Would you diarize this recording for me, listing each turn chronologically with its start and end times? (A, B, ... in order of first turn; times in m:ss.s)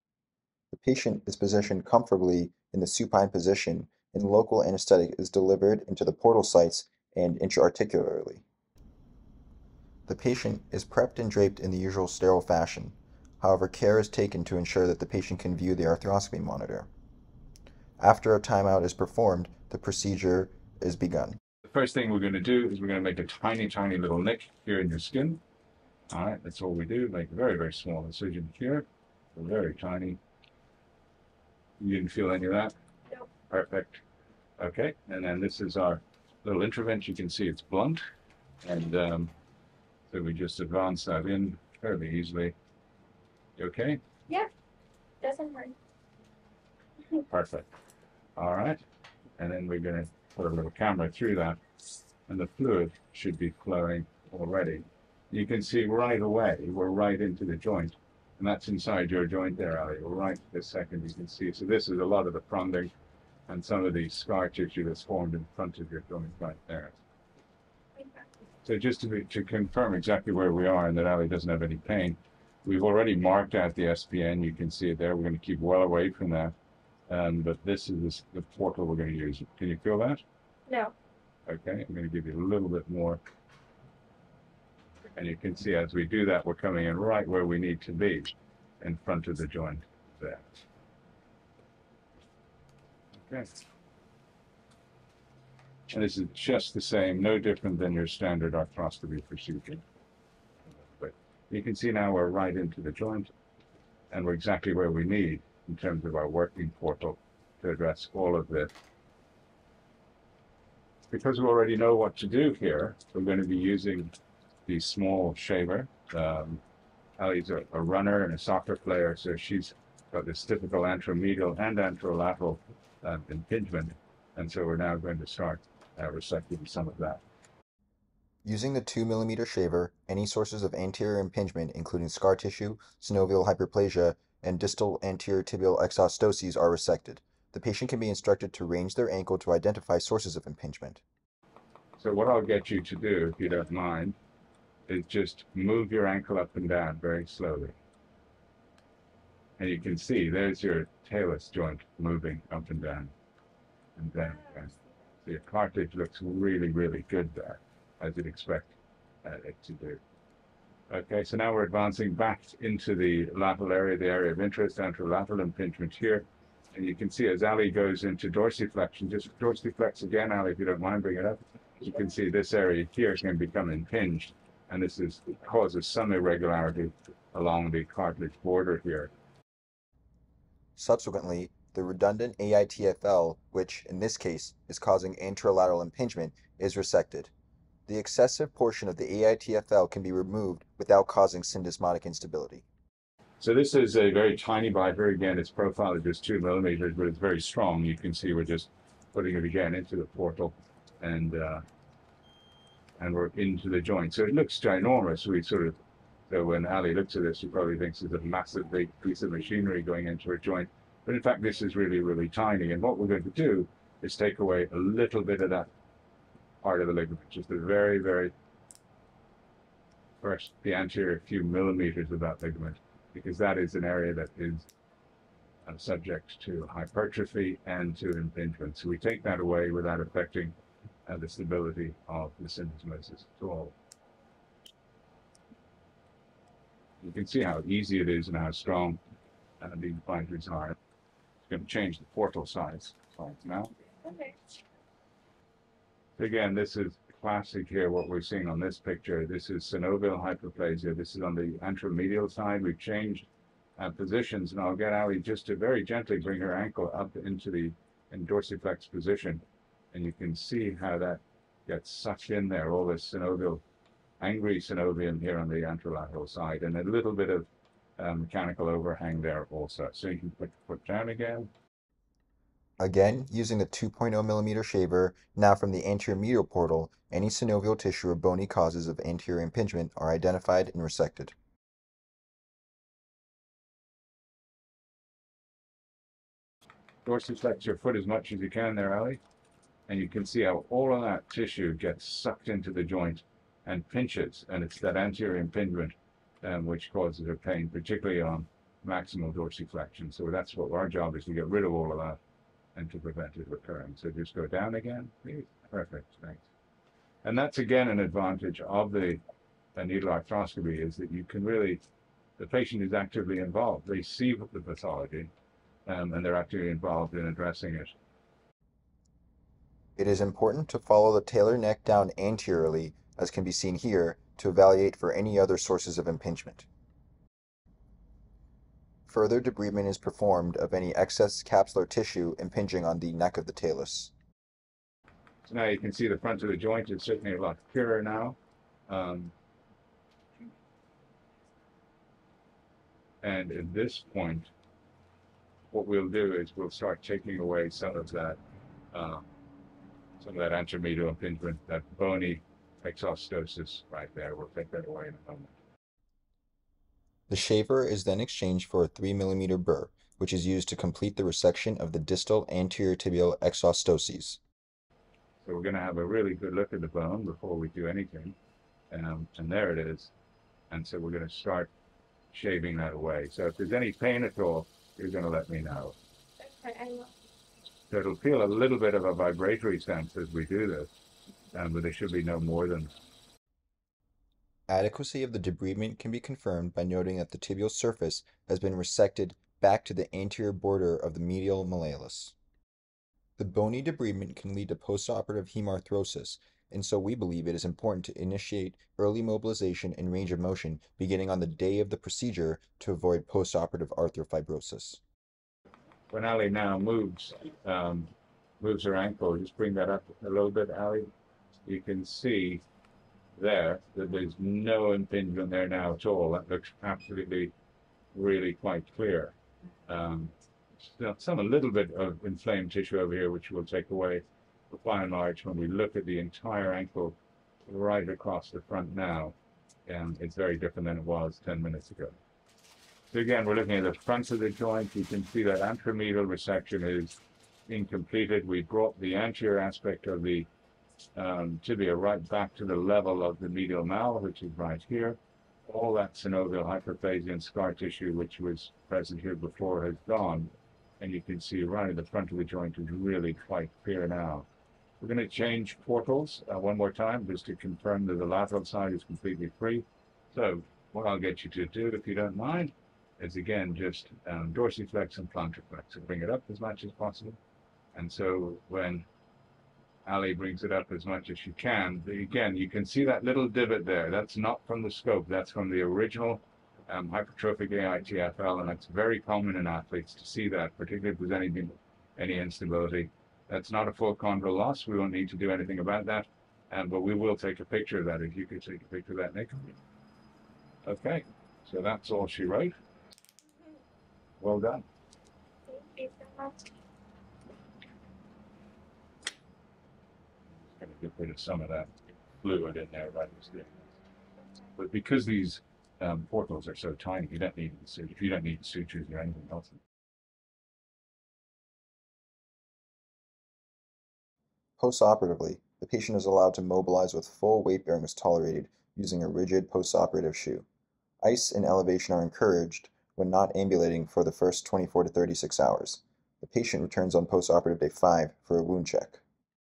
0:00.7-0:08.4 A
0:10.1-0:16.9 A
0:18.0-0:21.4 A
0:21.7-0:25.4 B
0:26.1-0:30.2 B
0:31.8-0:32.7 B
0:33.5-0:34.0 B
0:34.6-0:38.0 B
0:38.6-0:39.3 B
0:40.1-0:42.5 B
0:43.6-0:44.0 B
0:45.2-0:45.8 C
0:47.2-0:47.7 B
0:48.4-0:48.8 B
0:49.4-0:51.6 B
0:52.3-1:02.9 B
1:03.5-1:07.0 B
1:08.0-1:08.2 C
1:08.6-1:16.5 B
1:17.1-1:20.2 B
1:20.7-1:20.9 C
1:21.5-1:23.2 B
1:25.2-1:30.6 B
1:33.2-1:33.5 B
1:35.9-1:39.8 B
1:40.8-1:43.3 B
1:44.1-1:48.7 B
1:51.1-1:54.1 B
1:54.7-1:56.6 B
1:57.2-2:07.2 B
2:08.4-2:21.0 A
2:22.0-2:24.2 B
2:24.9-2:27.8 B
2:29.6-2:33.1 B
2:34.0-2:40.0 B
2:40.9-2:59.1 B
3:00.8-3:07.3 A
3:07.9-3:12.6 A
3:13.4-3:21.6 B
3:23.0-3:25.8 B
3:26.3-3:35.7 B
3:36.6-3:38.3 B
3:40.2-3:44.7 B
3:45.7-3:50.5 B
3:51.1-3:53.7 B
3:57.0-3:59.0 B
3:59.6-4:00.8 B
4:01.4-4:03.7 B
4:04.0-4:04.4 C
4:06.2-4:19.4 B
4:19.9-4:23.6 B
4:24.2-4:31.5 B
4:32.8-4:41.3 A
4:47.0-4:49.2 B
4:49.9-5:02.2 B
5:02.8-5:06.5 B
5:07.2-5:09.2 B
5:09.8-5:11.8 B
5:12.4-5:15.3 B
5:15.9-5:18.0 B
5:20.0-5:26.7 A
5:29.1-5:34.1 A
5:35.4-5:38.4 B
5:38.9-5:39.3 B
5:43.2-5:44.5 B
5:45.7-5:48.4 B
5:48.9-5:49.2 B
5:50.2-5:55.6 B
5:57.3-6:04.4 A
6:05.4-6:08.4 B
6:08.9-6:10.1 B
6:10.7-6:11.7 B
6:12.3-6:16.0 B
6:16.4-6:17.1 C
6:17.9-6:20.9 B
6:21.5-6:22.9 B
6:24.7-6:32.4 A
6:33.4-6:45.0 A
6:46.1-6:51.1 B
6:51.7-6:52.6 B
6:53.4-6:57.5 B
6:58.1-6:59.4 B
6:59.9-7:09.4 B
7:09.9-7:12.2 B
7:13.1-7:20.5 B
7:21.2-7:34.5 B
7:35.0-7:47.4 B
7:47.9-7:49.1 B
7:50.1-8:09.7 B
8:10.8-8:12.7 B
8:14.4-8:14.8 B
8:15.7-8:16.7 C
8:20.6-8:21.9 B
8:22.4-8:23.9 B
8:24.8-8:29.8 B
8:34.8-8:40.7 A
8:41.2-8:49.2 A